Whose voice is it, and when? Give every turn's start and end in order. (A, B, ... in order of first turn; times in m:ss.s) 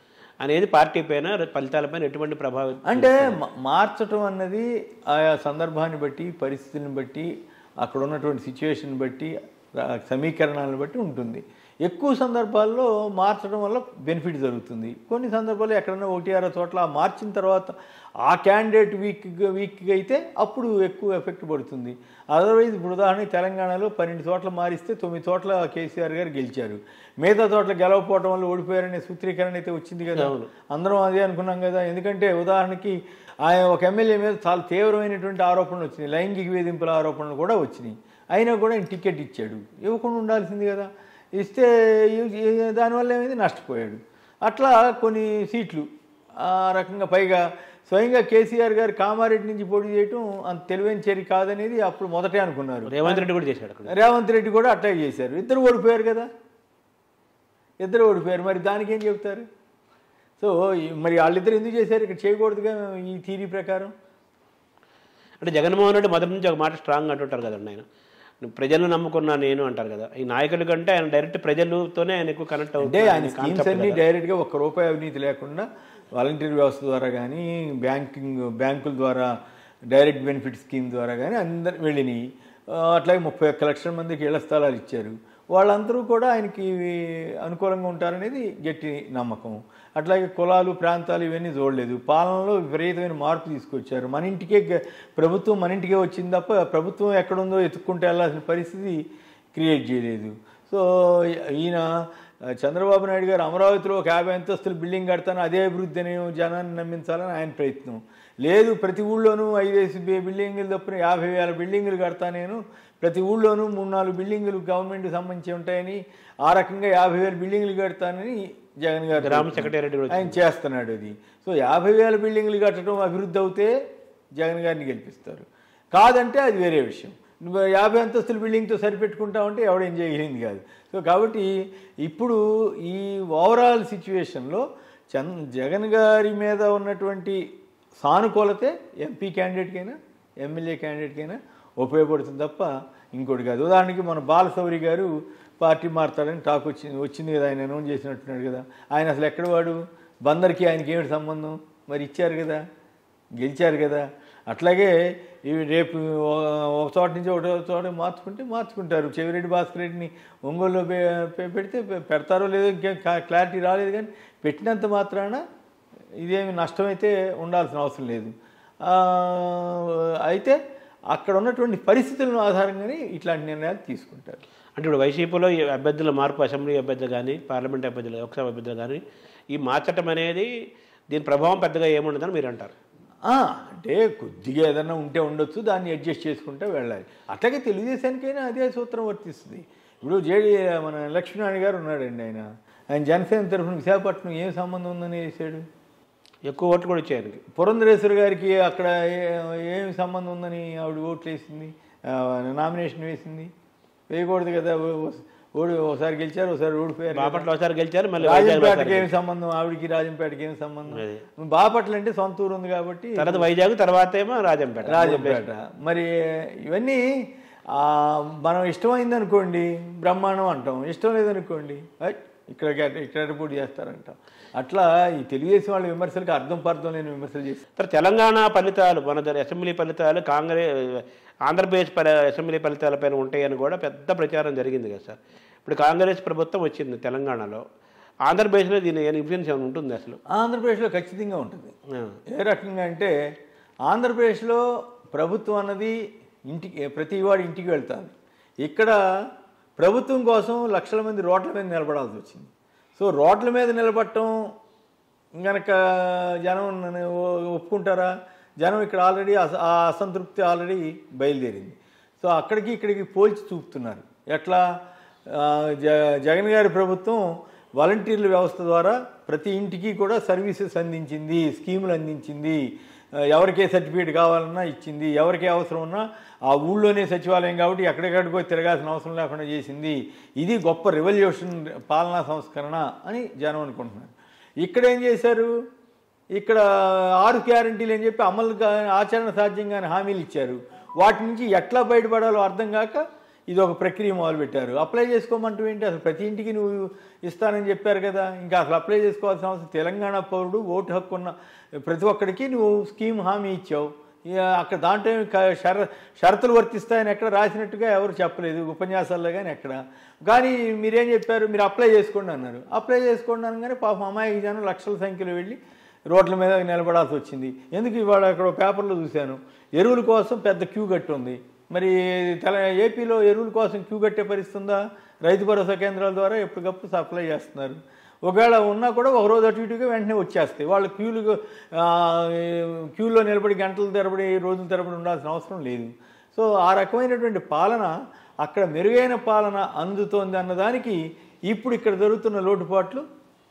0:00.4-0:03.4 A
0:02.9-0:45.9 B
0:30.1-0:30.5 A
0:46.4-0:53.3 B
0:52.9-0:53.9 A
0:53.9-0:56.3 B
0:57.8-0:59.4 B
1:00.4-1:03.9 B
1:05.4-1:07.8 A
1:08.4-1:14.0 A
1:12.8-1:19.3 B
1:19.9-1:39.0 B
1:39.5-2:03.7 B
1:59.2-2:00.4 A
2:04.4-2:11.5 B
2:12.0-2:17.4 B
2:18.0-2:32.6 B
2:33.4-2:34.9 B
2:35.4-2:45.4 B
2:46.2-2:48.3 B
2:48.8-2:50.6 B
2:51.1-2:54.4 B
2:54.8-3:00.5 A
3:01.1-3:02.7 A
3:03.3-3:15.6 B
3:16.5-3:17.4 A
3:17.5-3:23.5 B
3:24.1-3:27.5 B
3:27.1-3:29.1 A
3:28.2-3:33.5 B
3:30.9-3:31.2 A
3:33.2-3:35.4 A
3:34.9-3:47.6 B
3:47.8-3:57.6 A
3:58.2-4:00.2 A
4:00.3-4:01.7 B
4:01.9-4:02.2 A
4:02.3-4:03.1 B
4:03.9-4:06.0 B
4:06.5-4:14.5 B
4:15.4-4:24.6 B
4:25.3-4:27.3 B
4:27.8-4:45.5 B
4:46.3-5:15.6 B
5:16.1-5:43.0 B